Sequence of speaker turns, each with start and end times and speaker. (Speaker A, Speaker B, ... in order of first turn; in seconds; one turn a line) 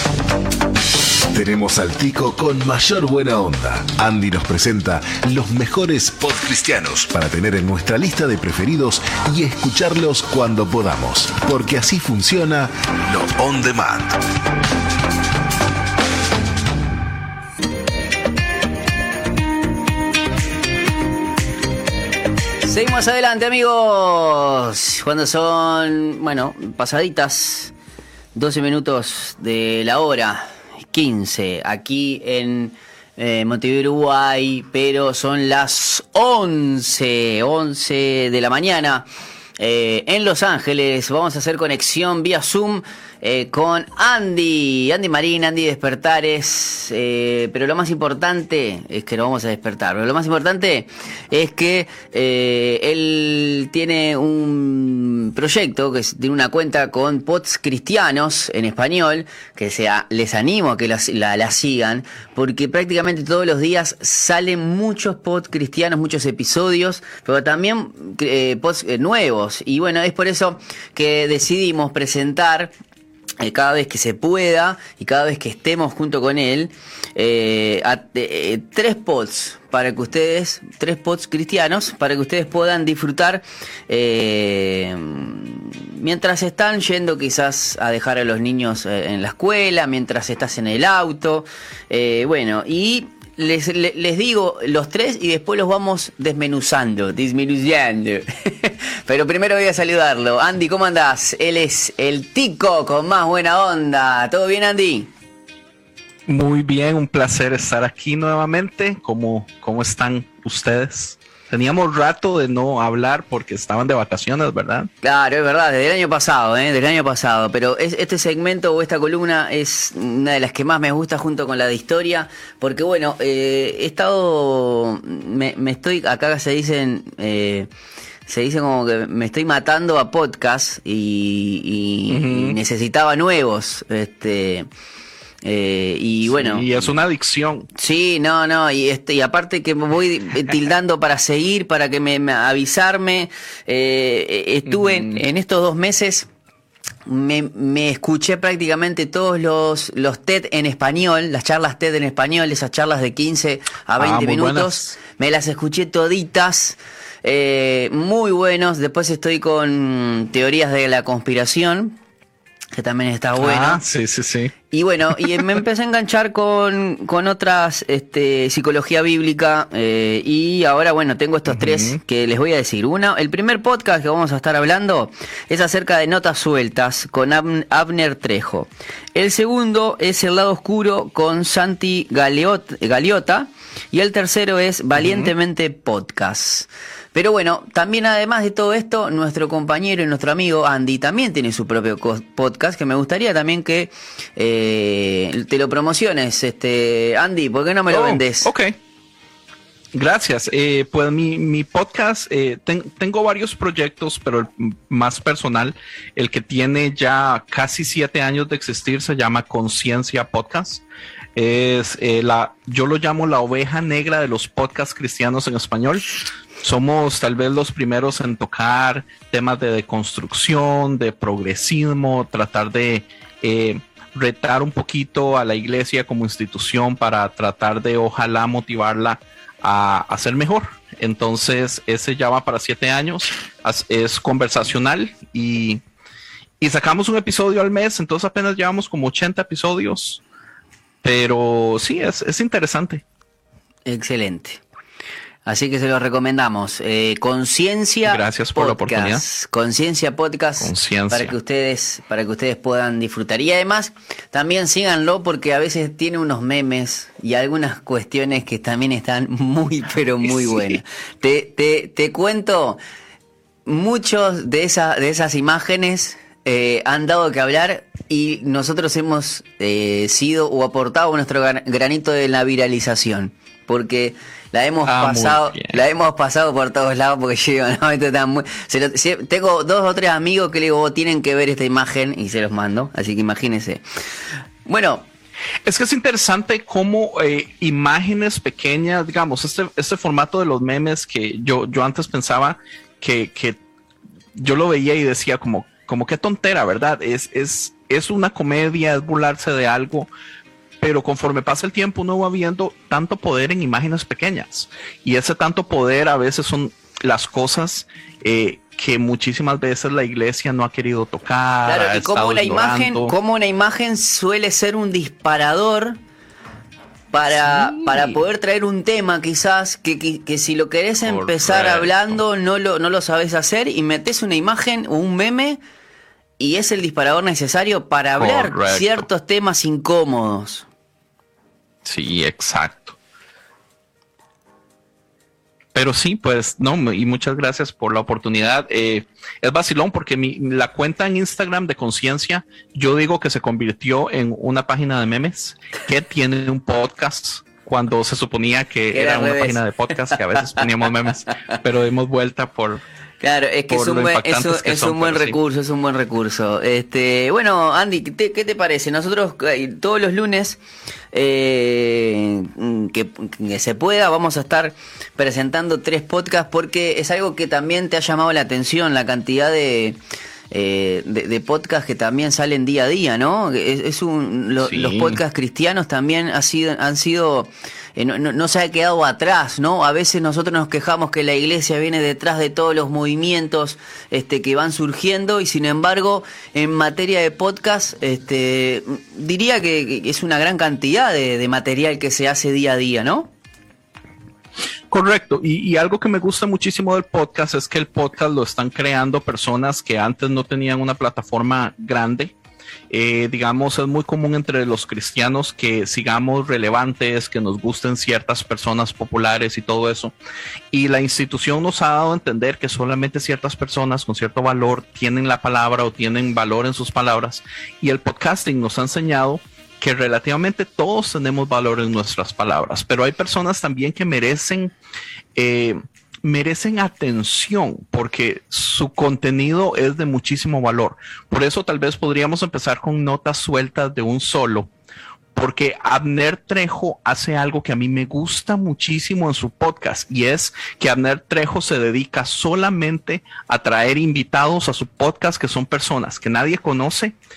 Speaker A: 1.3-14.2
Speaker B: 22.6-27.7
Speaker B: 28.3-39.0
Speaker B: 39.6-72.7
Speaker B: 73.4-105.1
Speaker C: 106.3-114.9
Speaker B: 115.0-127.7
Speaker B: 128.3-134.7
Speaker C: 132.1-132.6
Speaker B: 135.4-136.9
Speaker C: 136.2-137.7
Speaker B: 137.7-146.3
Speaker C: 144.7-145.2
Speaker B: 147.1-162.0
Speaker C: 154.0-154.9
Speaker B: 162.7-163.8
Speaker C: 163.4-164.5
Speaker B: 164.7-198.5
Speaker C: 165.1-165.6
Speaker C: 171.5-172.0
Speaker C: 185.0-185.3
Speaker C: 197.9-198.8
Speaker C: 199.9-210.8
Speaker C: 211.3-216.1
Speaker C: 216.6-235.8
Speaker C: 236.6-240.2
Speaker C: 241.0-243.0
Speaker B: 243.8-244.6
Speaker B: 245.4-262.8
Speaker C: 248.0-249.2
Speaker C: 250.6-251.3
Speaker C: 260.2-260.8
Speaker B: 263.6-283.8
Speaker C: 274.9-275.8
Speaker B: 284.6-285.1
Speaker C: 285.6-293.6
Speaker C: 294.4-300.1
Speaker C: 300.8-313.1
Speaker B: 311.6-316.0
Speaker B: 317.1-325.6
Speaker C: 317.4-318.1
Speaker C: 321.0-322.2
Speaker B: 326.4-330.6
Speaker C: 328.2-329.1
Speaker C: 331.8-332.9
Speaker C: 335.7-352.8
Speaker B: 348.9-349.6
Speaker B: 353.2-360.6
Speaker C: 353.7-355.4
Speaker B: 361.1-370.0
Speaker B: 370.5-393.3
Speaker C: 374.6-375.2
Speaker C: 394.9-402.3
Speaker C: 402.9-410.1
Speaker C: 410.7-424.7
Speaker C: 425.3-434.7
Speaker C: 435.3-447.1